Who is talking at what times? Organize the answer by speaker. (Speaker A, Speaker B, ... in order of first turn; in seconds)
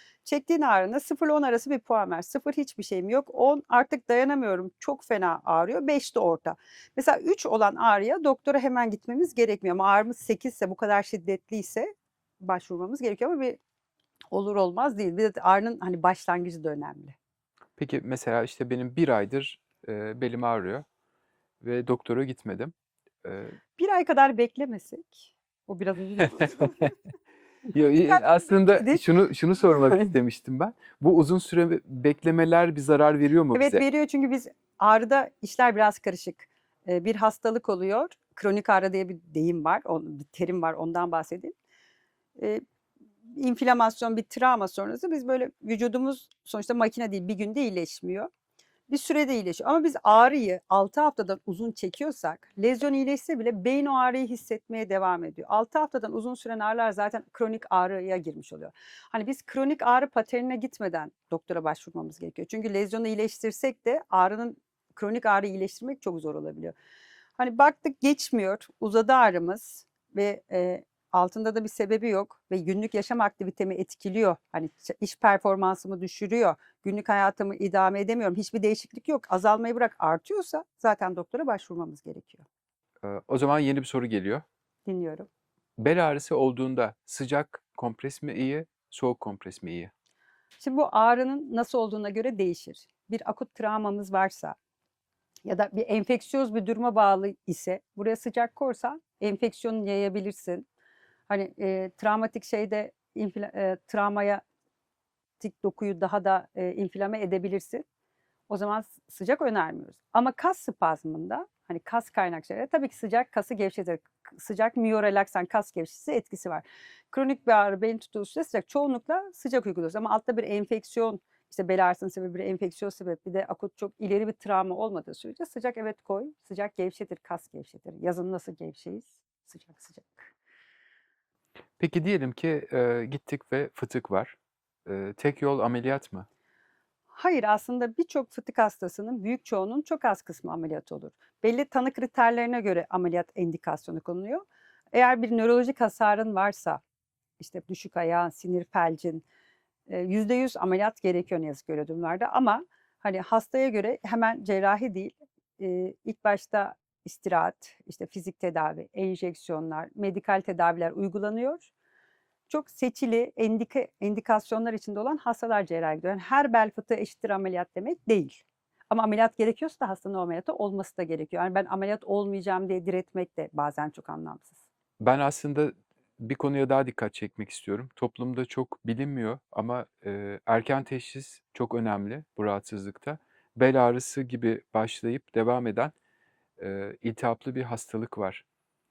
Speaker A: 0.2-11.9, 12.4-13.6, 14.3-17.1, 23.8-26.9, 28.0-29.0, 33.5-41.5, 42.4-42.6, 43.4-48.3, 48.9-66.8, 67.4-82.4, 84.8-85.3, 90.6-94.6, 95.4-100.7, 101.3-104.4, 105.4-107.8, 108.5-130.3, 137.1-146.8, 147.4-149.2, 149.9-161.7, 162.5-174.6
Speaker B: 17.8-20.9, 21.6-22.7, 23.2-23.6, 26.4-26.9, 27.7-33.8, 83.0-84.4, 85.8-89.9, 131.8-136.3, 175.0-185.9, 186.6-188.4